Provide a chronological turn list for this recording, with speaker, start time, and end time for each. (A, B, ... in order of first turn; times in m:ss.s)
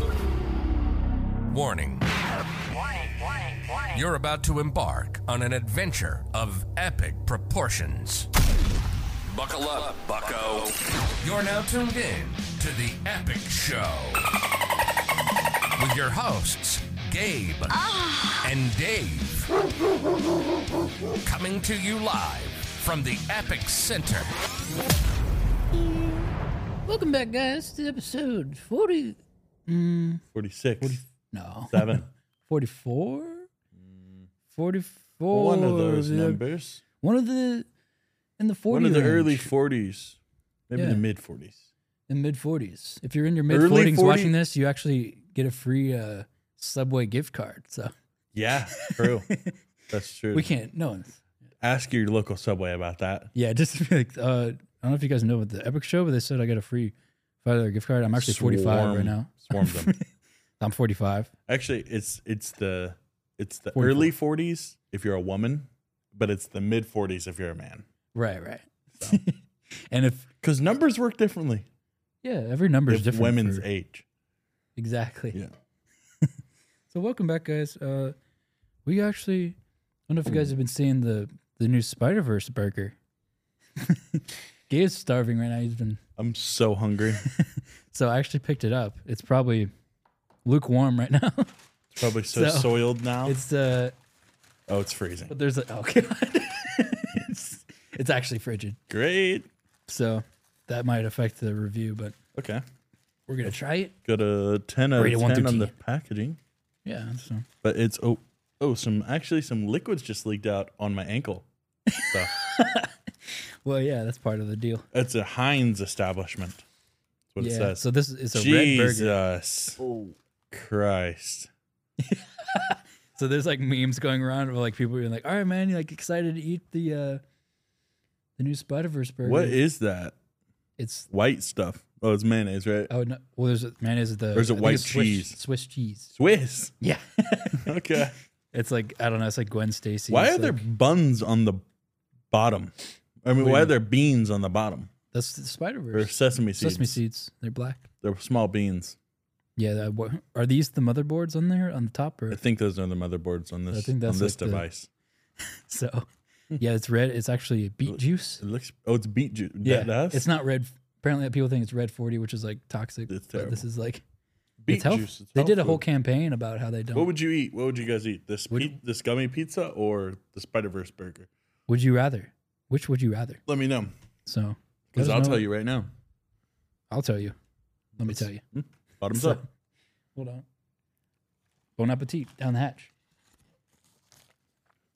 0:01.5-0:08.3 A
0:09.3-0:14.3 A
0:15.8-0:19.5 A
0:21.2-0:24.3 A
0:26.9-0:30.2 B
0:30.3-0:31.0 C
0:30.8-0:33.5 B
0:31.7-0:32.1 C
0:33.8-0:34.2 C
0:34.5-0:36.4 B
0:35.3-0:36.8 C
0:37.0-0:37.7 B
0:38.4-0:39.5 B
0:38.7-0:40.2 C
0:40.7-0:41.7 C
0:40.8-0:41.0 B
0:42.1-0:47.9 B
0:43.5-0:44.4 C
0:48.3-0:49.3 C
0:48.7-0:49.6 B
0:49.9-0:50.5 C
0:50.3-0:51.2 B
0:51.6-0:53.3 C
0:53.4-1:00.0 B
0:58.2-0:59.9 C
1:00.6-1:01.3 B
1:01.5-1:07.9 C
1:03.7-1:04.1 B
1:08.1-1:10.3 B
1:10.4-1:11.7 C
1:12.2-1:13.7 B
1:12.9-1:14.0 C
1:14.8-1:15.4 B
1:16.9-1:18.2 B
1:18.8-1:19.6 B
1:20.1-1:23.0 B
1:23.8-1:26.0 B
1:26.2-1:27.3 C
1:27.2-1:29.7 B
1:30.4-1:31.5 B
1:31.9-1:33.4 C
1:32.3-1:34.0 B
1:34.7-1:35.3 C
1:35.3-1:38.8 B
1:38.9-1:39.5 C
1:39.9-1:42.2 B
1:42.4-1:42.6 C
1:43.3-1:43.9 B
1:44.0-1:46.4 C
1:45.0-1:45.7 B
1:46.8-1:47.5 B
1:47.6-1:51.5 C
1:51.9-1:54.9 B
1:54.9-1:56.6 C
1:57.3-1:57.8 C
1:57.4-1:59.2 B
1:58.3-2:01.5 C
2:02.0-2:07.2 B
2:08.4-2:09.6 B
2:09.2-2:10.2 C
2:10.8-2:11.1 B
2:11.1-2:12.9 C
2:12.9-2:16.1 B
2:14.3-2:15.4 C
2:16.2-2:16.7 C
2:16.8-2:17.7 B
2:17.6-2:18.1 C
2:18.5-2:20.6 B
2:20.1-2:21.6 C
2:22.3-2:24.9 C
2:23.4-2:23.8 B
2:25.1-2:27.8 B
2:25.9-2:27.0 C
2:28.0-2:29.0 C
2:29.6-2:32.4 B
2:32.3-2:34.9 C
2:33.7-2:34.6 B
2:35.7-2:38.4 B
2:37.9-2:40.3 C
2:39.6-2:44.0 B
2:43.1-2:43.6 C
2:44.6-2:45.8 C
2:44.7-2:47.1 B
2:46.9-2:51.3 C
2:48.5-2:48.8 B
2:51.7-2:53.4 B
2:53.5-2:53.9 C
2:54.3-2:55.5 B
2:54.9-2:55.9 C
2:56.9-2:57.4 B
2:58.0-2:58.4 B
2:58.0-2:59.4 C
2:59.1-2:59.4 B
3:00.2-3:00.4 B
3:01.8-3:02.9 B